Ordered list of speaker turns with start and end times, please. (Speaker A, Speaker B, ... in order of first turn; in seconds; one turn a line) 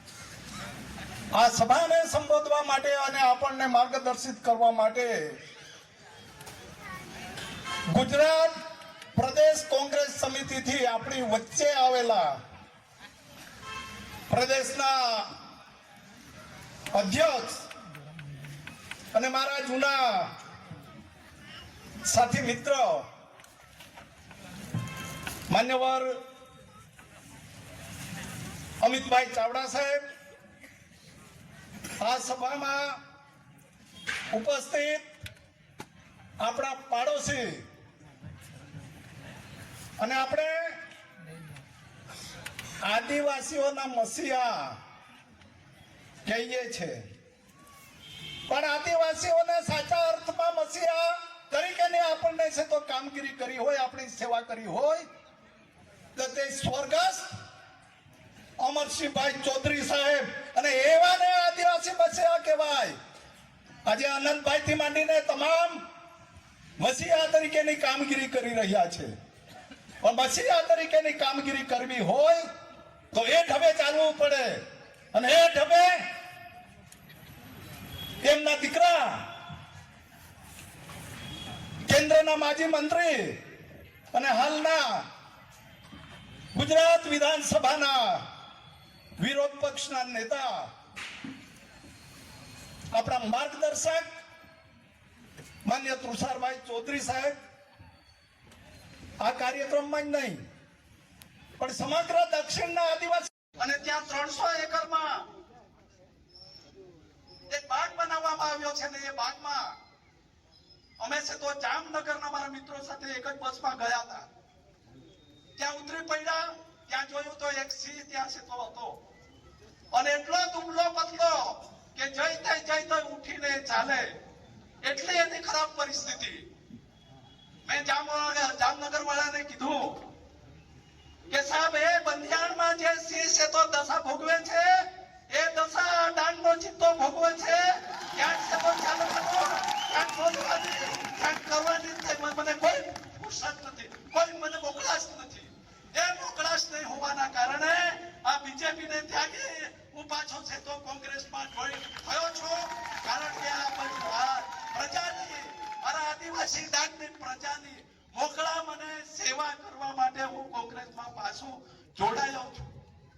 Speaker A: 1.3-5.3
Speaker A: 7.9-8.5
Speaker A: 9.2-12.3
Speaker A: 14.3-15.3
Speaker A: 16.9-17.6
Speaker A: 19.1-20.3
Speaker A: 22.1-23.0
Speaker A: 25.5-26.1
Speaker A: 28.8-30.0
Speaker A: 32.0-32.9
Speaker A: 34.3-35.0
Speaker A: 36.4-37.6
Speaker A: 40.0-40.8
Speaker A: 42.8-44.8
Speaker A: 46.2-47.0
Speaker A: 48.5-55.0
Speaker A: 56.1-57.3
Speaker A: 58.6-62.9
Speaker A: 63.9-65.8
Speaker A: 66.8-69.1
Speaker A: 70.0-72.5
Speaker A: 73.1-74.6
Speaker A: 75.1-76.0
Speaker A: 78.2-79.2
Speaker A: 81.9-83.4
Speaker A: 84.1-85.0
Speaker A: 86.5-88.2
Speaker A: 89.2-90.7
Speaker A: 92.9-94.1
Speaker A: 95.7-97.3
Speaker A: 99.2-100.4
Speaker A: 101.6-105.0
Speaker B: 103.6-105.0
Speaker B: 107.5-109.4
Speaker A: 107.6-109.6
Speaker B: 111.0-114.2
Speaker A: 111.3-112.6
Speaker B: 115.6-119.0
Speaker B: 119.9-124.0
Speaker B: 124.8-126.4
Speaker B: 127.7-130.0
Speaker A: 129.0-129.6
Speaker B: 131.3-134.7
Speaker A: 131.3-134.6
Speaker B: 135.3-137.6
Speaker A: 135.5-137.5
Speaker B: 138.1-162.7
Speaker A: 138.2-145.4
Speaker A: 146.0-149.9
Speaker A: 150.4-152.4
Speaker A: 153.2-155.4
Speaker A: 155.9-161.5
Speaker A: 162.0-162.6